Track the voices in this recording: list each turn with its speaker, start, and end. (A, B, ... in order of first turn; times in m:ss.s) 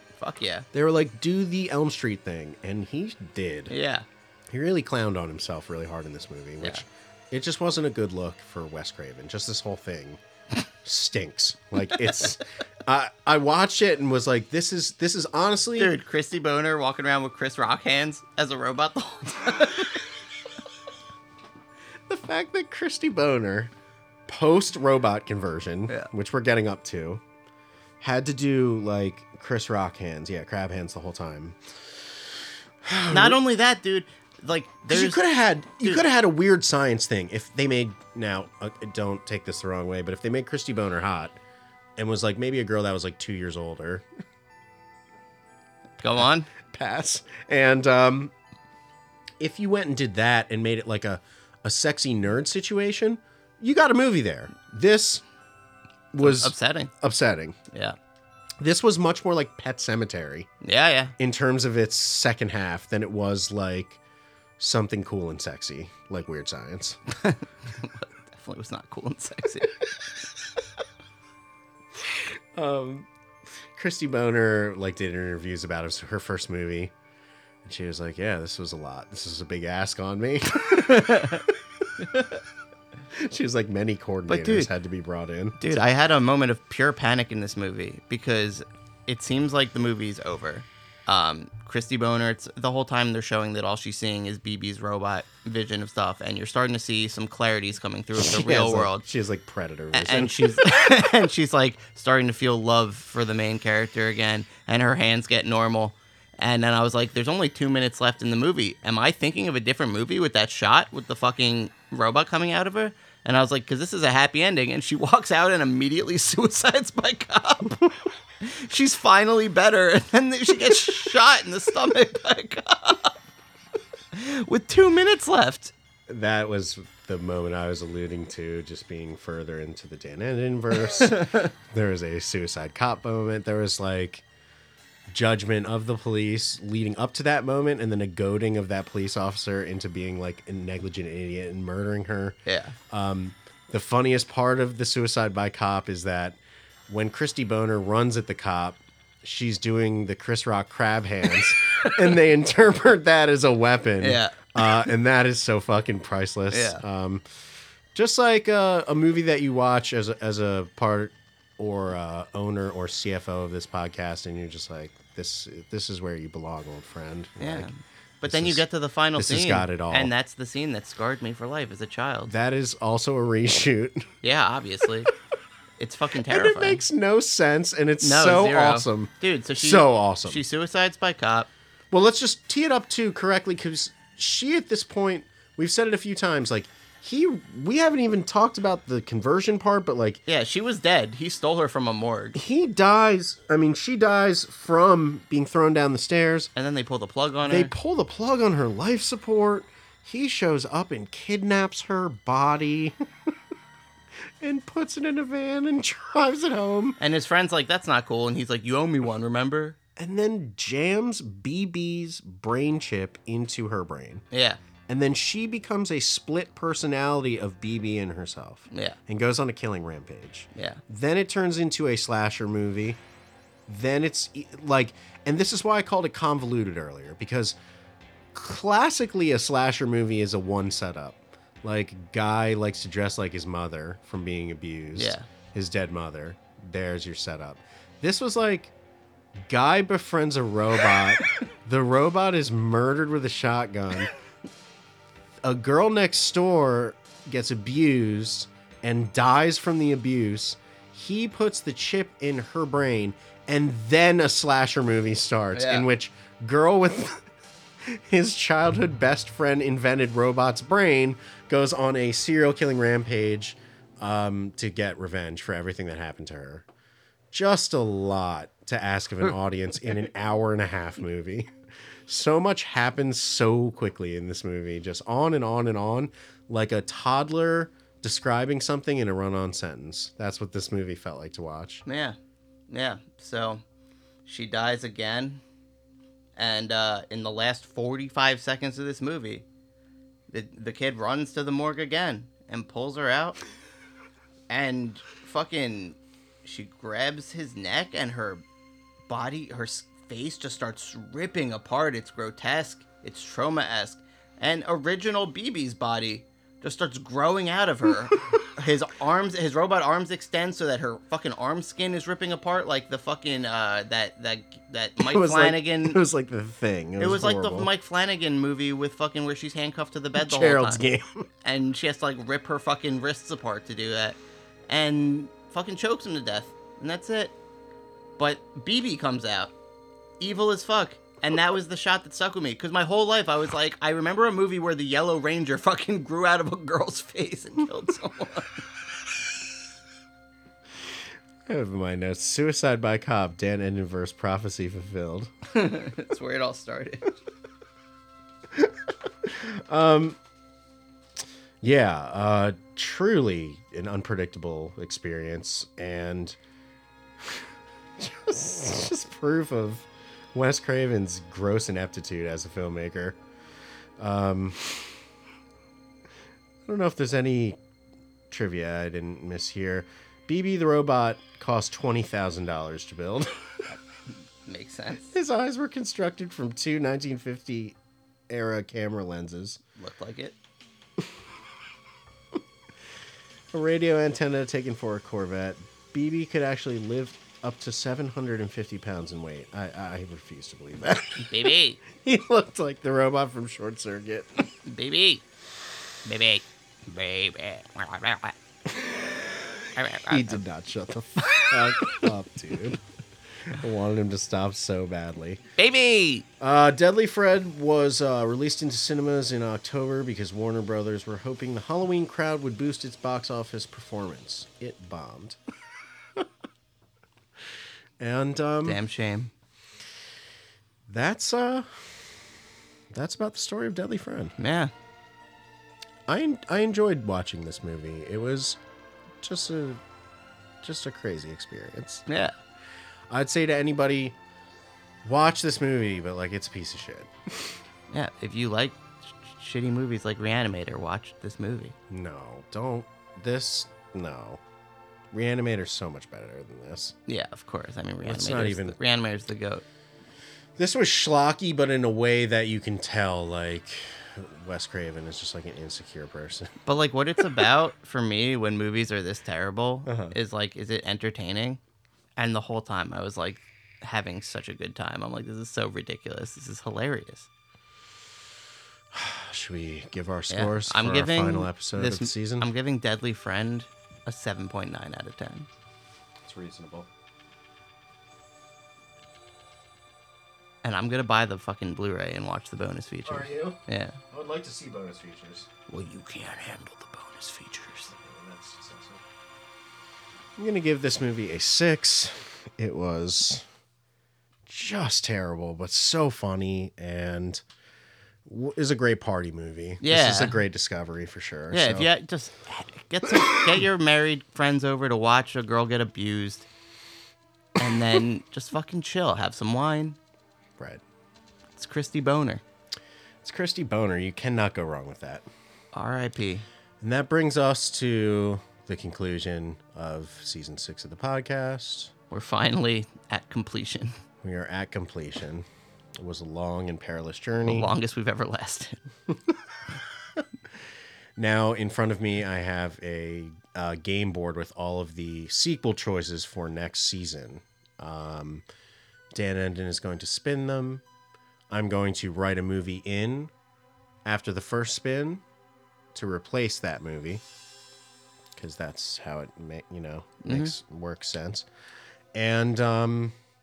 0:00.1-0:00.7 A
0:00.7-0:03.7 B
0:03.7-0:04.0 A
0:04.5-0:10.2 B
0:10.8-0:15.9 B
0:15.8-0:20.0 A
0:22.1-0:23.7 B
0:24.3-0:27.2 B
0:28.0-0:31.6 B
0:32.8-0:33.4 B
0:33.1-0:35.2 A
0:34.9-0:41.4 B
0:42.0-0:44.0 B
0:46.0-0:46.5 A
0:46.2-0:48.3 B
0:49.4-0:55.2 B
0:56.1-0:57.6 B
0:56.2-0:56.9 A
0:58.6-1:00.5 B
1:00.6-1:01.1 A
1:01.2-1:04.0 B
1:04.6-1:07.0 B
1:07.1-1:09.8 A
1:12.0-1:13.1 B
1:13.7-1:16.9 B
1:17.6-1:21.4 B
1:20.7-1:21.4 A
1:23.1-1:25.8 B
1:24.3-1:24.7 A
1:25.6-1:39.0 A
1:38.2-1:40.7 B
1:39.9-1:57.8 A
1:58.4-2:03.2 A
2:04.1-2:05.7 A
2:06.1-2:14.2 B
2:11.1-2:11.5 A
2:15.1-2:22.4 B
2:22.4-2:22.8 A
2:22.9-2:37.2 B
2:34.0-2:34.8 A
2:36.5-2:36.8 A
2:37.9-2:47.7 B
2:47.4-2:52.3 A
2:48.3-2:48.6 B
2:49.2-2:50.1 B
2:52.3-2:54.1 B
2:54.2-2:55.1 A
2:55.8-2:56.8 A
2:56.3-3:00.4 B
2:58.0-3:01.5 A
3:01.9-3:10.2 B
3:10.3-3:12.4 A
3:12.3-3:16.5 B
3:16.6-3:17.7 A
3:17.4-3:23.0 B
3:24.4-3:27.0 B
3:27.0-3:29.8 A
3:30.0-3:34.2 B
3:34.3-3:34.6 A
3:34.9-3:43.0 B
3:38.7-3:39.0 A
3:40.6-3:40.8 A
3:43.7-3:47.6 B
3:48.3-3:58.7 B
3:55.0-3:55.3 A
3:59.4-4:04.1 B
4:05.4-4:17.2 B
4:15.6-4:15.9 A
4:17.8-4:26.7 B
4:27.3-4:31.5 B
4:32.1-4:41.8 B
4:41.9-4:42.2 A
4:42.7-4:43.6 A
4:44.2-4:45.4 A
4:46.4-4:49.4 A
4:50.3-4:53.4 A
4:54.5-4:58.4 A
4:59.1-5:16.0 A
5:15.0-5:17.7 B
5:17.0-5:20.8 A
5:20.1-5:21.3 B
5:21.4-5:24.2 A
5:24.7-5:27.3 A
5:28.2-5:29.5 A
5:30.2-5:38.6 A
5:41.4-5:45.3 B
5:45.5-5:47.1 A
5:48.5-5:50.2 B
5:51.6-5:56.4 B
5:57.2-6:03.2 B
6:04.0-6:05.0 B
6:06.6-6:07.6 B
6:08.3-6:13.4 B
6:14.1-6:15.1 A
6:15.1-6:17.8 B
6:18.3-6:19.6 B
6:19.8-6:20.4 A
6:23.5-6:34.5 B
6:31.2-6:31.8 A
6:34.6-6:35.2 A
6:36.0-6:38.3 A
6:39.7-6:40.4 A
6:40.1-6:42.8 B
6:41.2-6:42.1 A
6:43.5-6:45.4 B
6:45.6-6:46.3 A
6:46.4-6:55.4 B
6:58.0-6:58.8 B
6:58.6-6:59.3 A
7:00.9-7:02.0 B
7:02.9-7:04.3 B
7:04.4-7:04.7 A
7:06.1-7:08.6 B
7:09.2-7:09.8 B
7:10.6-7:12.0 B
7:12.1-7:12.3 A
7:13.1-7:14.2 B
7:15.0-7:17.6 B
7:17.9-7:21.8 A
7:21.9-7:24.4 B
7:25.1-7:27.0 B
7:27.1-7:29.6 A
7:28.0-7:28.8 B
7:30.6-7:36.5 B
7:36.7-7:41.6 A
7:39.9-7:40.2 B
7:42.2-7:47.3 A
7:48.9-7:52.5 B
7:50.3-7:55.5 A
7:56.2-7:56.9 B
8:00.6-8:04.0 A
8:03.0-8:03.6 B
8:04.1-8:05.5 B
8:05.7-8:07.9 A
8:07.9-8:09.0 B
8:10.4-8:13.4 B
8:14.4-8:17.4 B
8:18.3-8:21.9 B
8:19.8-8:20.4 A
8:21.5-8:26.5 A
8:27.6-8:30.0 A
8:31.6-8:32.4 A
8:33.2-8:35.3 B
8:35.7-8:36.4 A
8:36.8-8:41.9 B
8:42.1-8:44.0 A
8:44.2-8:47.7 B
8:47.4-8:48.8 A
8:51.2-8:58.4 B
8:59.1-9:00.8 B
9:01.5-9:03.3 B
9:04.0-9:05.2 B
9:05.9-9:07.2 B
9:08.4-9:11.5 B
9:10.2-9:10.5 A
9:12.1-9:13.1 B